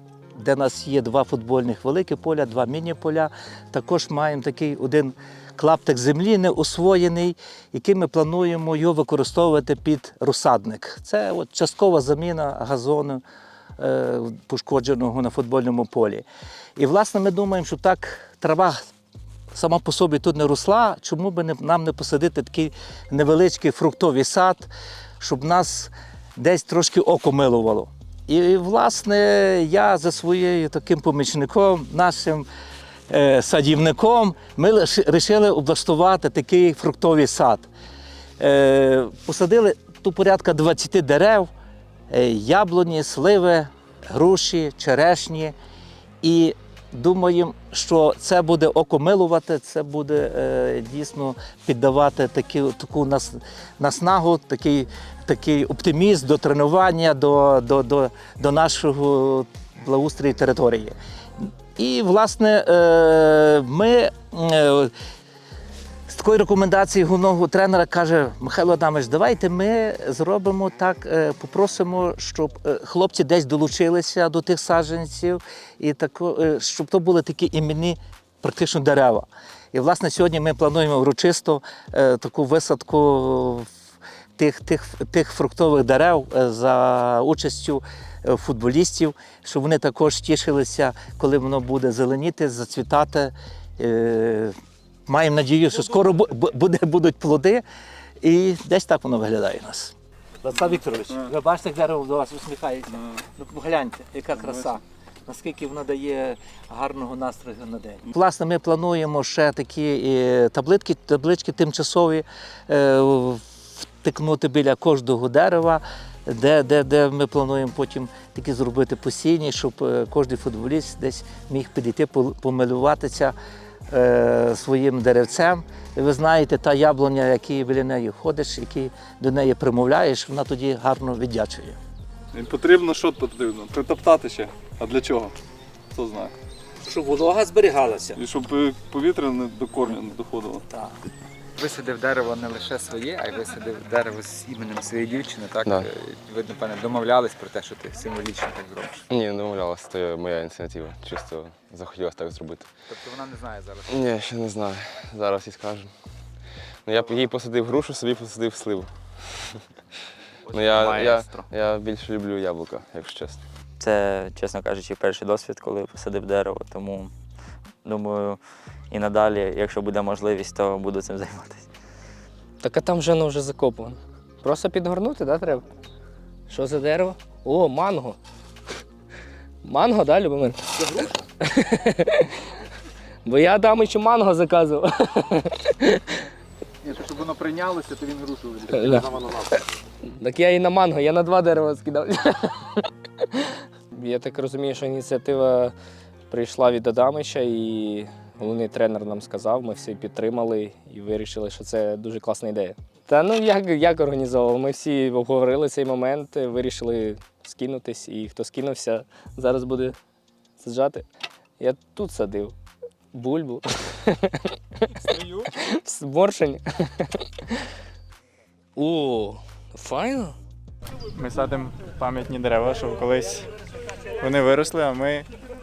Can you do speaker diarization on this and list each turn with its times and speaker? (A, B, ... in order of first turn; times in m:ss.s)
0:00.4-0:13.2 A
0:13.8-0:16.2 A
0:16.8-0:18.8 A
0:19.5-0:24.7 A
0:25.2-0:32.5 A
0:33.1-0:37.7 A
0:38.4-0:41.5 A
0:42.1-0:45.6 A
0:46.2-1:04.9 A
1:06.1-1:23.7 A
1:24.4-1:34.5 A
1:35.1-1:37.6 A
1:38.2-2:03.4 A
2:03.9-2:11.8 A
2:12.3-2:15.4 B
2:15.9-2:16.3 B
2:17.1-2:18.1 C
2:18.2-2:20.6 B
2:21.6-2:29.1 C
2:29.1-2:32.7 D
2:32.8-2:33.9 C
2:33.9-2:39.6 D
2:40.5-2:41.4 C
2:40.5-2:43.4 D
2:43.8-2:47.1 E
2:47.8-2:51.7 E
2:52.6-2:55.7 F
2:56.5-2:58.2 F
2:59.6-3:02.3 F
3:03.2-3:06.0 F
3:06.8-3:09.0 C
3:08.7-3:12.9 F
3:13.9-3:15.7 F
3:16.3-3:30.0 F
3:30.6-3:31.0 F
3:31.6-3:32.5 F
3:33.1-3:37.2 F
3:38.8-3:40.4 F
3:41.2-3:43.5 G
3:44.2-3:45.3 G